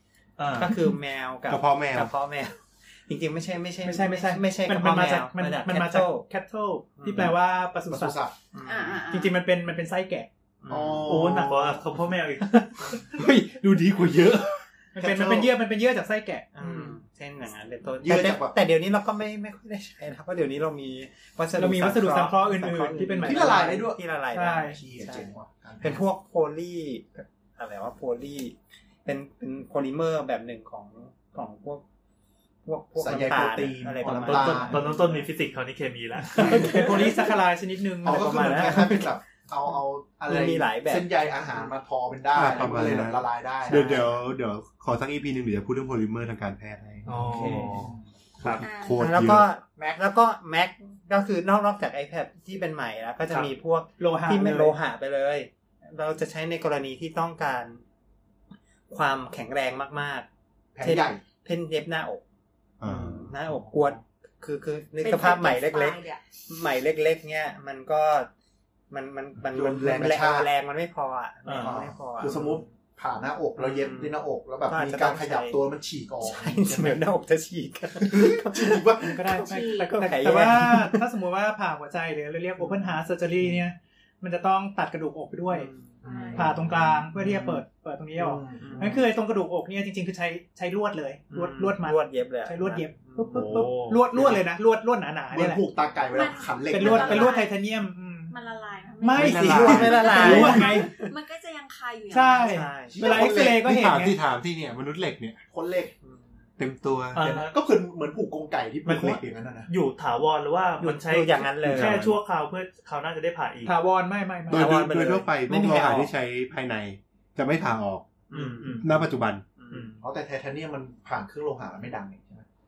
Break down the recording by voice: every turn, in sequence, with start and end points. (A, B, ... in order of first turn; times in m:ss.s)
0:00.4-0:00.8 A
0:00.5-0:06.3 B
0:01.5-0:02.1 C
0:03.8-0:08.2 D
0:07.0-0:07.4 B
0:07.9-0:08.4 E
0:08.5-0:09.1 B
0:08.6-0:09.4 F
0:09.1-0:10.3 D
0:10.6-0:11.3 B
0:10.7-0:11.8 E
0:11.0-0:13.0 A
0:13.2-0:14.6 C
0:14.9-0:16.9 D
0:15.0-0:15.5 E
0:16.6-0:31.8 B
0:18.0-0:18.6 E
0:21.6-0:24.8 D
0:23.2-0:24.0 E
0:24.7-0:26.0 E
0:32.7-0:35.3 B
0:33.0-0:34.9 E
0:34.0-0:36.9 A
0:36.4-0:36.8 B
0:36.4-0:36.9 E
0:36.4-0:38.8 D
0:38.0-0:44.0 E
0:38.1-0:39.1 B
0:40.3-0:41.1 B
0:42.3-0:47.5 C
0:43.7-0:44.2 B
0:47.1-0:48.6 A
0:47.3-0:48.0 E
0:47.4-0:47.7 D
0:48.4-0:49.5 C
0:48.6-0:49.0 F
0:49.0-0:57.8 B
0:54.0-0:54.8 D
0:58.9-1:00.3 B
1:00.8-1:01.2 E
1:00.8-1:02.2 B
1:02.8-1:03.3 C
1:02.8-1:08.3 B
1:05.0-1:06.2 F
1:08.9-1:12.6 B
1:09.5-1:10.5 E
1:11.5-1:11.8 A
1:11.6-1:17.0 E
1:13.6-1:15.6 B
1:16.2-1:21.0 B
1:18.0-1:19.2 E
1:19.1-1:25.7 D
1:19.4-1:20.0 F
1:22.6-1:23.0 B
1:25.5-1:26.3 B
1:26.0-1:27.0 E
1:26.0-1:26.5 F
1:26.4-1:35.6 D
1:28.2-1:29.0 E
1:28.6-1:29.0 B
1:31.3-1:33.4 B
1:33.3-1:34.0 A
1:35.3-1:37.4 E
1:36.1-1:37.5 F
1:36.7-1:38.3 D
1:38.3-1:42.7 F
1:39.0-1:40.9 D
1:39.2-1:40.4 C
1:39.2-1:41.1 B
1:42.1-1:44.2 D
1:42.5-1:43.0 B
1:42.9-1:43.6 E
1:43.0-1:45.4 C
1:45.5-1:45.9 E
1:46.0-1:46.3 B
1:46.6-1:47.2 C
1:47.1-1:47.6 A
1:47.2-1:49.7 E
1:48.9-1:53.8 A
1:50.8-1:52.1 B
1:51.6-1:52.2 C
1:53.7-1:54.7 D
1:54.5-1:58.1 C
1:54.5-1:56.1 B
1:58.3-1:58.9 B
1:58.3-1:58.9 A
1:58.8-1:59.4 C
1:59.6-1:59.9 B
1:59.7-2:00.0 A
2:00.0-2:02.5 E